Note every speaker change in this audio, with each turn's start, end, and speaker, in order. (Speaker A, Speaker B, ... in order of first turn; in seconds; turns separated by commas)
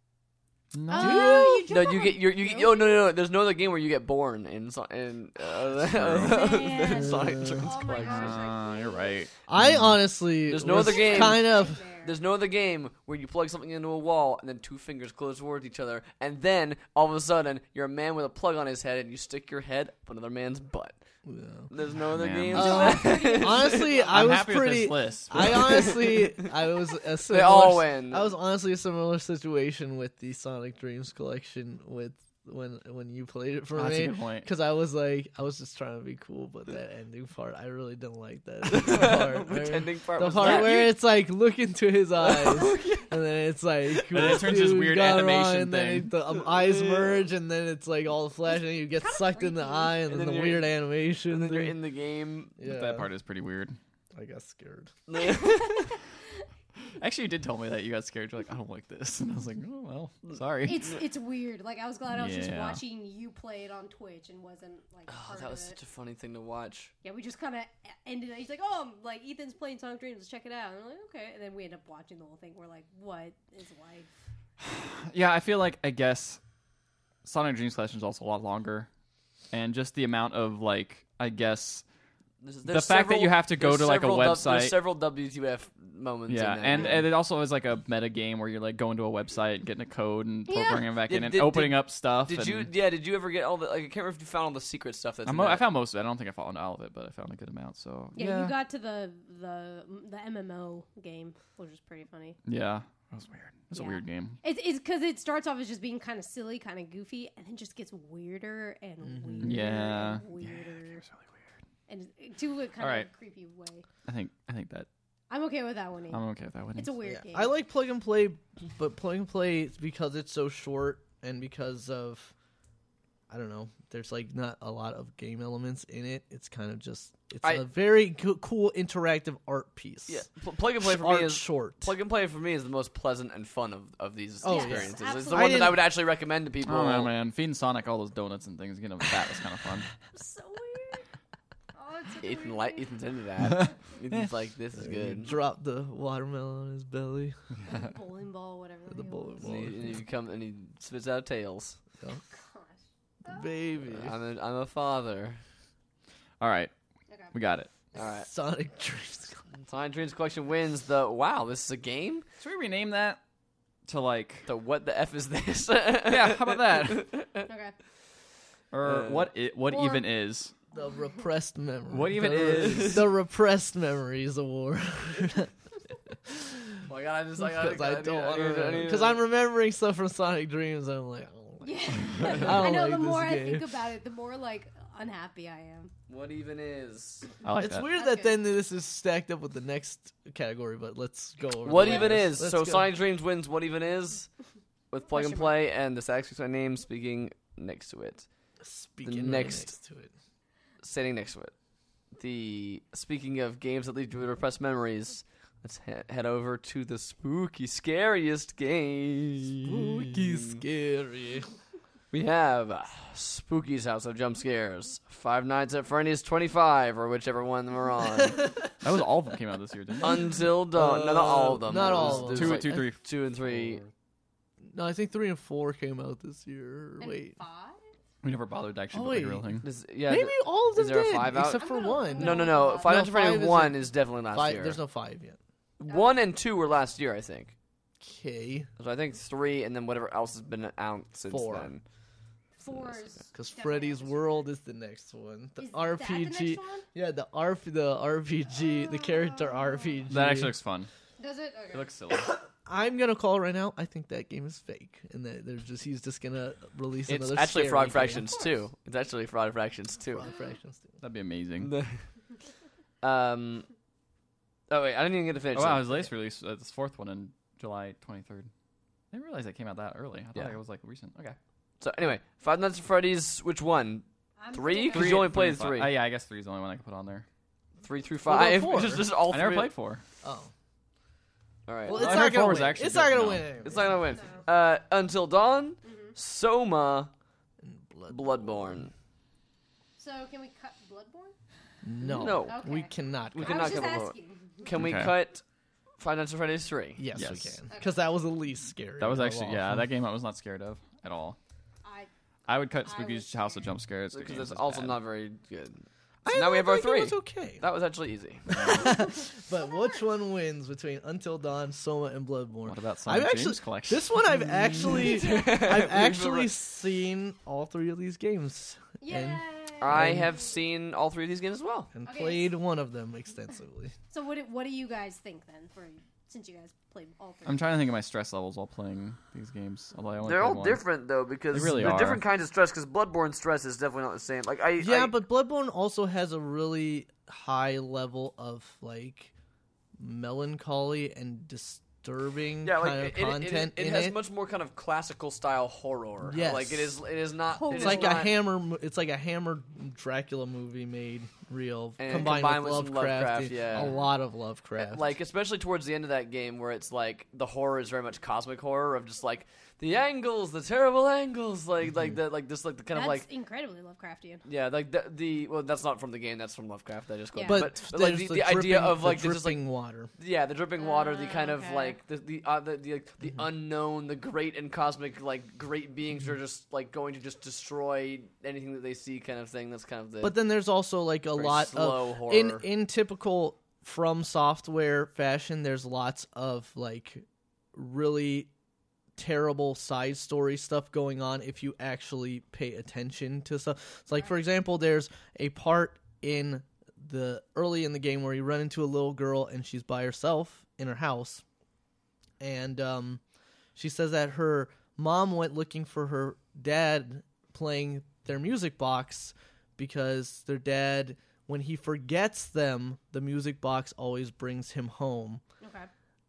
Speaker A: 0.7-1.4, Speaker B: 0.9-3.0, Speaker C: 0.9-1.7, Speaker D: 1.7-8.4, Speaker A: 5.4-6.4, Speaker B: 6.2-9.2, Speaker C: 7.0-7.6, Speaker A: 8.0-10.0, Speaker C: 9.5-11.8, Speaker D: 10.5-20.9, Speaker B: 10.7-12.1, Speaker C: 21.2-21.7, Speaker D: 21.7-24.0, Speaker A: 22.1-23.0, Speaker B: 22.5-24.2, Speaker C: 22.6-51.8, Speaker A: 24.1-26.0, Speaker D: 26.0-26.3, Speaker D: 27.3-28.3, Speaker A: 33.7-34.5, Speaker D: 38.6-40.9, Speaker A: 40.4-40.8, Speaker D: 42.2-43.1, Speaker A: 44.1-46.1, Speaker D: 44.1-44.4, Speaker D: 46.3-47.3, Speaker B: 48.9-50.0, Speaker D: 50.0-50.7, Speaker D: 51.3-52.5, Speaker C: 52.6-53.1, Speaker A: 52.6-53.8, Speaker C: 54.1-54.9, Speaker D: 55.1-55.9, Speaker B: 55.3-56.4, Speaker A: 57.0-60.9, Speaker B: 60.6-65.8, Speaker A: 62.1-62.8, Speaker D: 65.1-66.9, Speaker B: 67.0-74.1, Speaker A: 74.6-76.4, Speaker A: 77.2-78.9, Speaker A: 79.5-81.8, Speaker D: 82.4-87.0, Speaker A: 82.7-84.8, Speaker A: 86.3-92.7, Speaker B: 86.7-87.0, Speaker B: 90.5-90.8, Speaker D: 91.1-95.6, Speaker A: 95.2-98.5, Speaker B: 98.1-102.4, Speaker A: 102.5-104.4, Speaker B: 103.7-111.0, Speaker C: 109.0-109.6, Speaker A: 109.4-111.3, Speaker B: 111.9-113.8, Speaker A: 112.8-113.1, Speaker A: 114.1-114.9, Speaker B: 115.3-116.2, Speaker A: 116.1-116.9, Speaker B: 116.8-117.5, Speaker C: 117.0-122.3, Speaker C: 123.3-130.3, Speaker D: 130.1-137.1, Speaker C: 130.8-131.9, Speaker C: 134.4-135.8, Speaker B: 134.4-135.7, Speaker A: 136.6-139.9, Speaker B: 140.1-141.1, Speaker B: 141.7-142.9, Speaker D: 142.2-145.3, Speaker A: 143.4-144.3, Speaker C: 144.7-147.4, Speaker B: 147.7-149.5, Speaker C: 148.9-150.0, Speaker D: 149.4-151.8, Speaker B: 152.2-153.7, Speaker C: 153.2-154.1, Speaker D: 153.8-155.4, Speaker A: 156.4-156.7, Speaker A: 157.3-157.7, Speaker D: 157.9-158.3, Speaker C: 158.2-159.4, Speaker D: 159.6-162.2, Speaker A: 162.4-163.2, Speaker A: 163.8-164.5, Speaker D: 164.4-167.5, Speaker A: 166.1-167.1, Speaker B: 167.5-167.7, Speaker A: 168.7-170.5, Speaker D: 168.8-169.3, Speaker B: 169.7-170.1, Speaker C: 170.7-175.5, Speaker A: 171.9-173.1, Speaker D: 172.2-173.0, Speaker C: 176.2-176.8, Speaker D: 176.8-179.2, Speaker C: 177.4-183.7, Speaker B: 181.6-185.9, Speaker D: 186.1-187.3, Speaker A: 187.4-187.8, Speaker C: 187.6-192.9, Speaker B: 187.9-188.4, Speaker D: 191.6-194.3, Speaker B: 191.7-192.1, Speaker D: 194.9-198.3, Speaker B: 195.1-195.5, Speaker C: 198.6-200.1, Speaker D: 199.0-199.7, Speaker D: 200.8-201.5, Speaker D: 202.1-210.6, Speaker C: 209.6-211.5, Speaker D: 212.1-218.5, Speaker A: 218.8-220.5, Speaker D: 220.0-223.8, Speaker C: 220.7-222.8, Speaker A: 221.9-223.0, Speaker C: 224.7-227.3, Speaker B: 227.0-227.8, Speaker A: 228.2-229.7, Speaker C: 228.9-229.5, Speaker D: 229.6-234.8, Speaker C: 230.1-235.4, Speaker B: 231.6-233.0, Speaker D: 235.8-237.5, Speaker B: 235.9-236.1, Speaker C: 238.0-238.7, Speaker D: 238.8-241.8, Speaker C: 241.3-241.7, Speaker B: 242.6-244.5, Speaker C: 243.3-250.5, Speaker B: 245.6-246.8, Speaker B: 248.7-249.9, Speaker A: 250.1-250.9, Speaker B: 251.2-251.9, Speaker A: 251.7-252.3, Speaker C: 252.5-258.4, Speaker D: 257.1-260.3, Speaker C: 260.1-261.0, Speaker A: 261.0-261.7, Speaker D: 261.6-262.0, Speaker D: 263.0-263.7, Speaker D: 264.7-266.1, Speaker A: 265.5-268.5, Speaker A: 269.1-271.4, Speaker D: 271.8-275.9, Speaker B: 274.4-275.2, Speaker A: 274.9-277.2, Speaker D: 277.8-279.7, Speaker C: 278.2-279.1, Speaker A: 279.1-280.0, Speaker C: 280.2-280.5, Speaker D: 281.6-282.4, Speaker C: 281.9-284.1, Speaker A: 281.9-283.5, Speaker D: 283.6-287.1, Speaker B: 283.8-284.4, Speaker B: 285.8-286.1, Speaker C: 287.6-288.8, Speaker D: 288.1-288.9, Speaker B: 290.0-291.3, Speaker C: 291.8-293.9, Speaker D: 292.1-292.6, Speaker B: 292.1-294.7, Speaker D: 293.3-295.4, Speaker A: 294.7-295.1, Speaker D: 296.0-297.0, Speaker C: 297.0-299.9, Speaker A: 297.1-297.6, Speaker B: 297.7-298.0, Speaker A: 299.0-301.4, Speaker B: 301.8-302.1, Speaker A: 302.5-305.0, Speaker B: 302.8-303.7, Speaker D: 304.1-308.9, Speaker C: 306.2-307.6, Speaker A: 308.5-308.9, Speaker C: 308.6-320.3, Speaker A: 312.6-314.1, Speaker D: 314.6-316.5, Speaker B: 315.0-315.4, Speaker B: 319.0-320.1, Speaker D: 319.8-321.9, Speaker C: 321.9-323.9, Speaker B: 322.0-322.5, Speaker B: 324.1-327.6, Speaker A: 327.4-330.8, Speaker D: 330.2-335.1, Speaker A: 331.5-332.2, Speaker C: 334.8-339.3, Speaker C: 340.0-344.2, Speaker D: 342.6-348.3, Speaker C: 346.2-347.0, Speaker B: 347.5-348.2, Speaker C: 347.7-355.1, Speaker D: 352.0-354.0, Speaker B: 353.7-354.1, Speaker D: 354.8-363.3, Speaker B: 362.9-364.4, Speaker D: 364.4-369.6, Speaker B: 367.3-367.6, Speaker C: 367.4-370.1, Speaker D: 370.2-380.3, Speaker B: 370.8-372.0, Speaker C: 380.2-388.5, Speaker D: 381.3-382.6, Speaker C: 389.2-401.4, Speaker C: 402.4-403.2, Speaker C: 403.8-415.4, Speaker B: 415.6-415.9